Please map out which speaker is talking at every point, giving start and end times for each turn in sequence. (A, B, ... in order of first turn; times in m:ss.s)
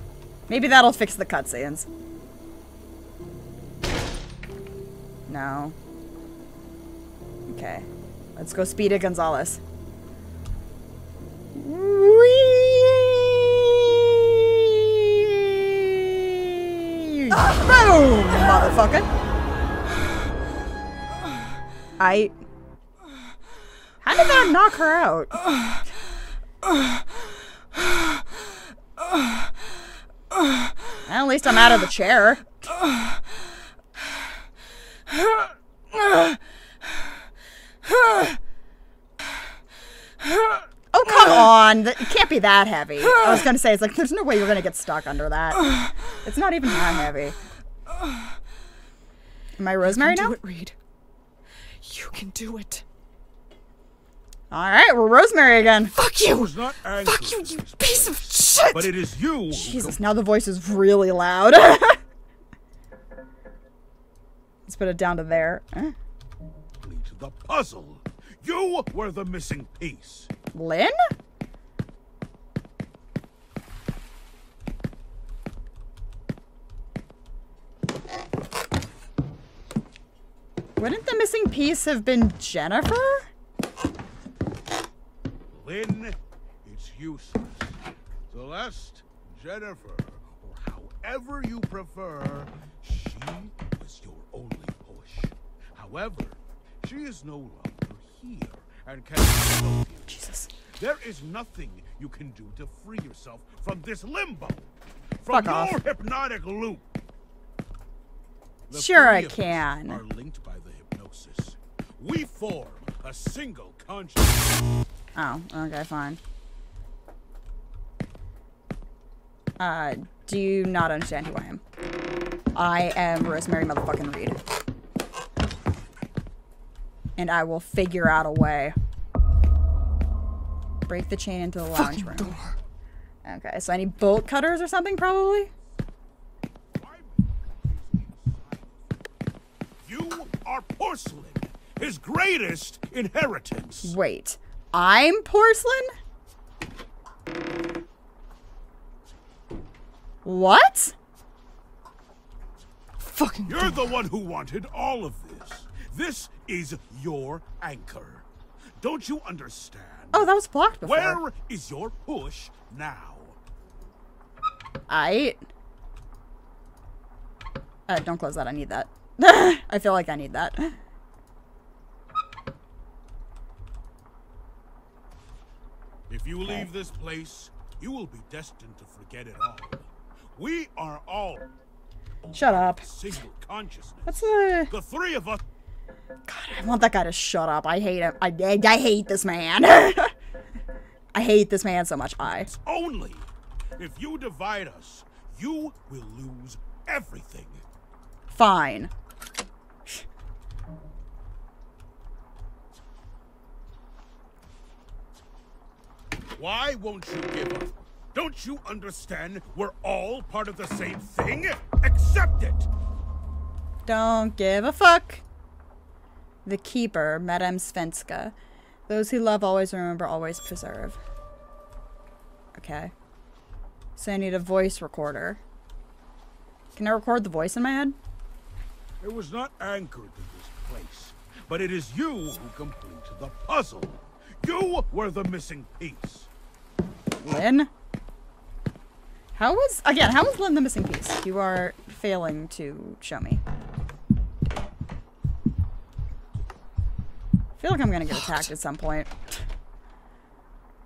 0:00.5-0:01.9 A
0:05.3-0:05.8 A
0:07.5-0:09.6 A
0:11.5-0:19.1 A
0:17.3-0:18.7 B
0:22.0-0:22.4 A
0:24.0-0:25.3 A
0:31.1-0:32.5 A
0:40.9-0:45.6 A
0:46.2-0:47.4 A
0:49.6-0:50.4 A
0:49.8-0:50.8 B
0:51.8-0:52.8 B
0:54.5-0:56.0 A
0:55.9-0:59.0 B
0:56.2-1:00.0 C
0:59.5-1:02.0 A
1:04.7-1:06.0 A
1:06.8-1:10.3 C
1:10.5-1:11.0 A
1:20.8-1:23.3 A
1:25.5-1:46.8 C
1:40.1-1:40.5 A
1:45.3-1:45.8 A
1:48.7-1:54.6 C
1:48.7-1:50.0 A
1:55.2-1:56.2 A
1:59.6-2:01.6 A
2:02.6-2:04.4 A
2:07.2-2:08.8 A
2:10.9-2:12.4 A
2:11.7-2:12.6 B
2:13.2-2:15.5 A
2:16.7-2:19.2 C
2:19.8-2:24.0 C
2:23.8-2:25.9 A
2:30.2-2:30.9 A
2:33.0-2:33.9 B
2:33.5-2:38.3 C
2:38.8-2:43.4 C
2:40.1-2:41.2 A
2:44.9-2:45.4 A
2:47.9-2:50.8 A
2:56.1-3:01.5 C
2:56.4-2:56.7 A
3:02.3-3:02.9 A
3:02.4-3:05.4 C
3:04.1-3:04.7 A
3:06.3-3:10.1 A
3:11.1-3:12.5 A
3:12.4-3:17.6 C
3:18.3-3:18.9 A
3:26.4-3:32.7 C
3:33.9-3:35.2 A
3:36.4-3:38.4 A
3:38.9-3:41.0 A
3:42.6-3:42.9 A
3:44.0-3:45.4 A
3:46.8-3:48.0 A
3:49.0-3:56.3 C
3:57.2-3:57.7 A
3:59.4-4:03.4 A
4:07.6-4:09.4 A